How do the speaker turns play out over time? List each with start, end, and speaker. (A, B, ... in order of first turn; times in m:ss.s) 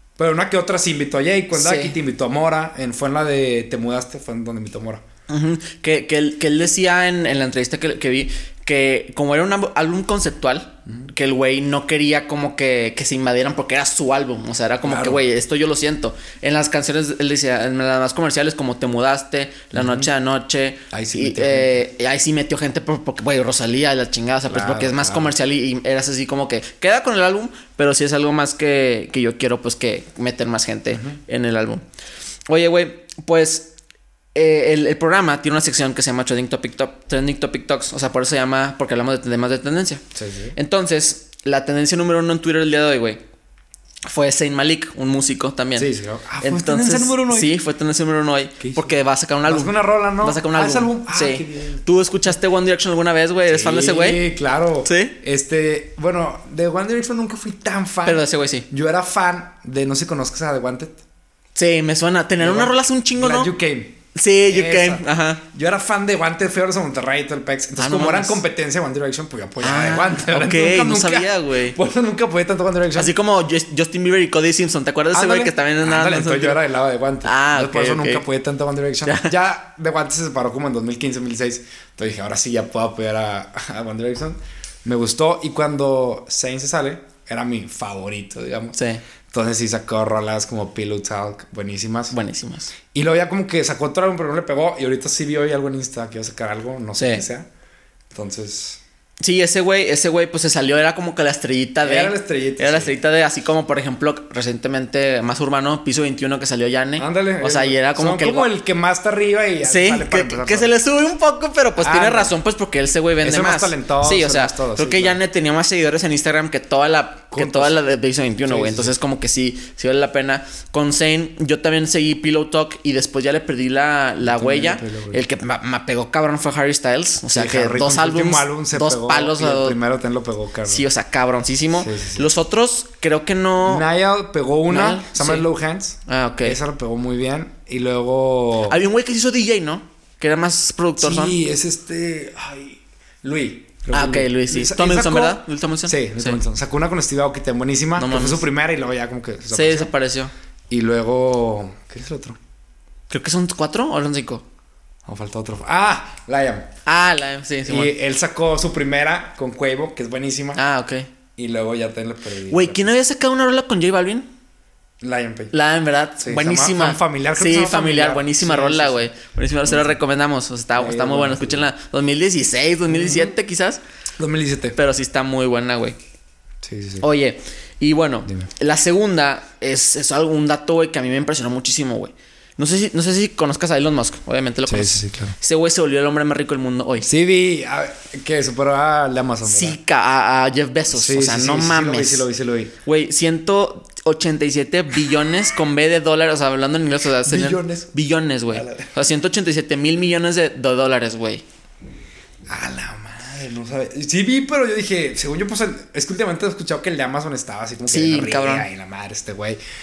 0:00.2-0:05.0 A
0:01.5-0:02.0 B
0:05.3-0:31.8 B
0:14.8-0:15.2 A
0:19.7-0:20.1 A
0:20.9-0:21.8 A
0:24.5-0:25.3 A
0:32.5-0:33.7 B
0:34.4-0:40.0 B
0:40.1-0:40.6 A
0:40.6-0:43.2 B
0:44.1-0:45.9 B
0:45.8-0:47.5 A
0:46.4-0:54.2 B
0:48.6-0:49.0 A
0:49.5-0:51.8 A
0:53.5-1:01.0 A
0:54.8-0:55.1 B
0:58.0-0:58.7 B
1:01.6-1:03.5 B
1:02.4-1:13.2 A
1:04.2-1:05.4 B
1:07.8-1:08.4 B
1:09.6-1:11.8 B
1:12.9-1:16.6 B
1:15.1-1:28.8 A
1:17.2-1:18.2 B
1:19.0-1:19.3 B
1:28.7-1:29.0 B
1:29.3-1:32.2 A
1:32.1-1:32.7 B
1:32.9-1:37.5 A
1:37.0-1:37.2 B
1:38.1-1:38.8 A
1:39.2-1:48.5 B
1:41.8-1:42.9 A
1:47.0-1:50.7 A
1:49.6-2:09.8 B
1:51.8-1:52.4 A
1:53.2-1:55.2 A
1:57.3-1:57.8 A
1:58.5-1:58.9 A
2:04.2-2:05.2 A
2:07.3-2:10.8 A
2:10.7-2:13.8 B
2:11.8-2:12.3 A
2:13.6-2:18.8 A
2:14.7-2:15.5 B
2:16.1-2:16.6 B
2:18.6-2:21.4 B
2:21.0-2:29.9 A
2:23.9-2:26.4 B
2:28.0-2:28.4 B
2:29.5-2:30.3 B
2:30.7-2:32.4 A
2:33.1-2:34.4 B
2:35.1-2:36.7 A
2:36.9-2:37.9 B
2:37.7-2:40.6 A
2:40.6-2:41.1 B
2:41.4-2:42.9 A
2:42.5-2:44.3 B
2:45.0-2:45.5 A
2:45.5-2:53.8 B
2:46.2-2:49.1 A
2:49.6-2:50.0 A
2:50.8-2:51.7 A
2:52.9-2:53.3 A
2:54.2-2:54.8 A
2:54.8-2:56.0 B
2:56.6-2:57.0 A
2:57.0-3:07.1 B
3:04.7-3:05.3 A
3:07.0-3:09.8 A
3:09.4-3:12.2 B
3:10.9-3:12.7 A
3:12.8-3:21.4 B
3:17.2-3:17.9 A
3:18.5-3:18.9 A
3:22.5-3:29.6 A
3:27.9-3:28.7 B